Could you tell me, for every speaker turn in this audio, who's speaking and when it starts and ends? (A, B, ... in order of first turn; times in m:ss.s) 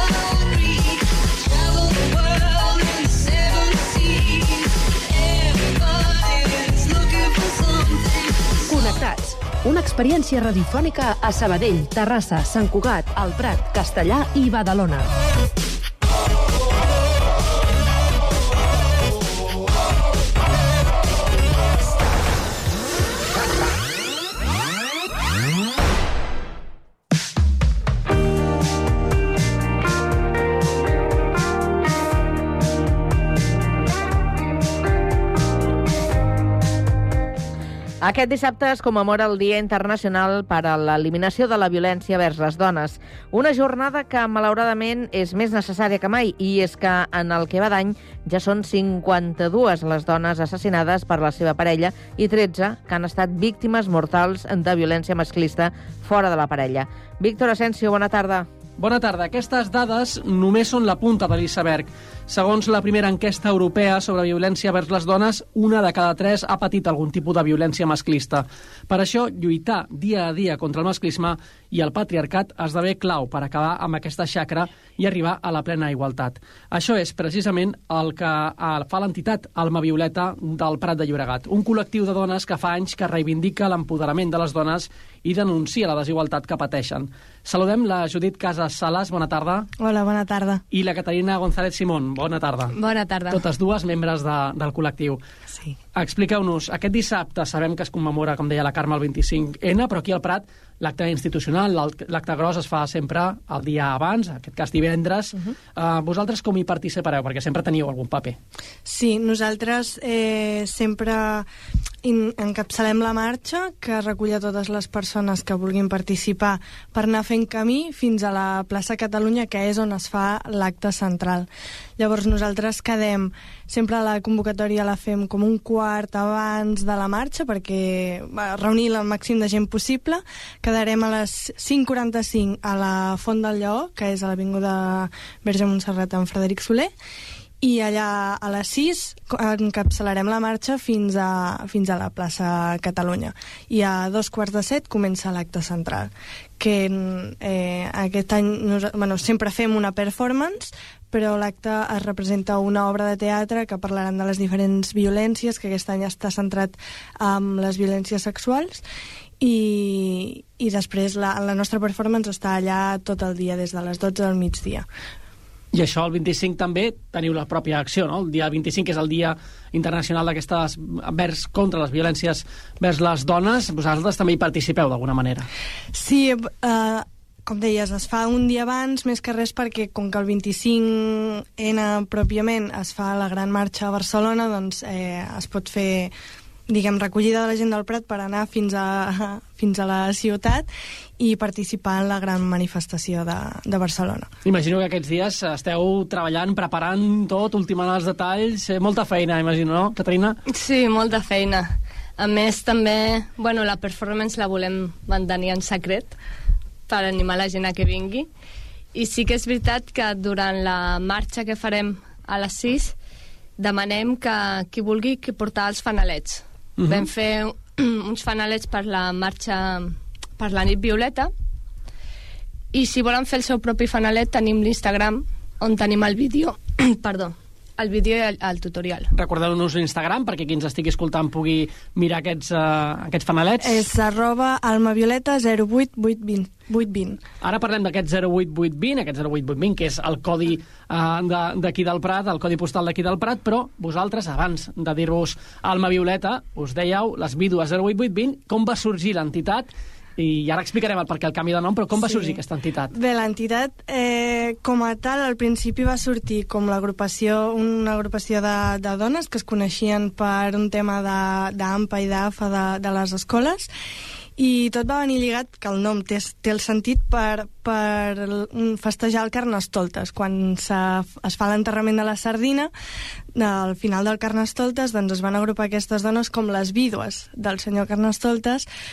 0:08.7-0:15.1 A
0:38.0-0:58.5 B
0:58.8-1:29.7 C
1:29.8-1:30.6 D
1:30.7-1:32.7 C
1:32.7-1:33.4 E
1:33.3-1:35.2 C
1:36.0-1:48.4 C
1:48.8-1:51.5 D
1:52.0-2:16.9 D
2:17.6-2:38.8 D
2:39.4-2:44.8 D
2:45.7-2:55.5 C
2:55.9-3:06.1 D
3:06.7-3:10.7 D
3:11.2-3:14.3 D
3:14.4-3:20.4 C
3:20.5-3:26.1 E
3:26.9-3:28.3 E
3:28.9-3:32.9 E
3:33.6-3:41.3 E
3:36.8-3:37.1 C
3:42.7-3:49.1 E
3:49.1-3:53.8 C
3:53.6-3:57.2 D
3:57.4-4:12.9 C
4:11.9-4:12.4 D
4:12.9-4:23.7 D
4:24.4-4:32.7 D
4:33.3-4:38.7 D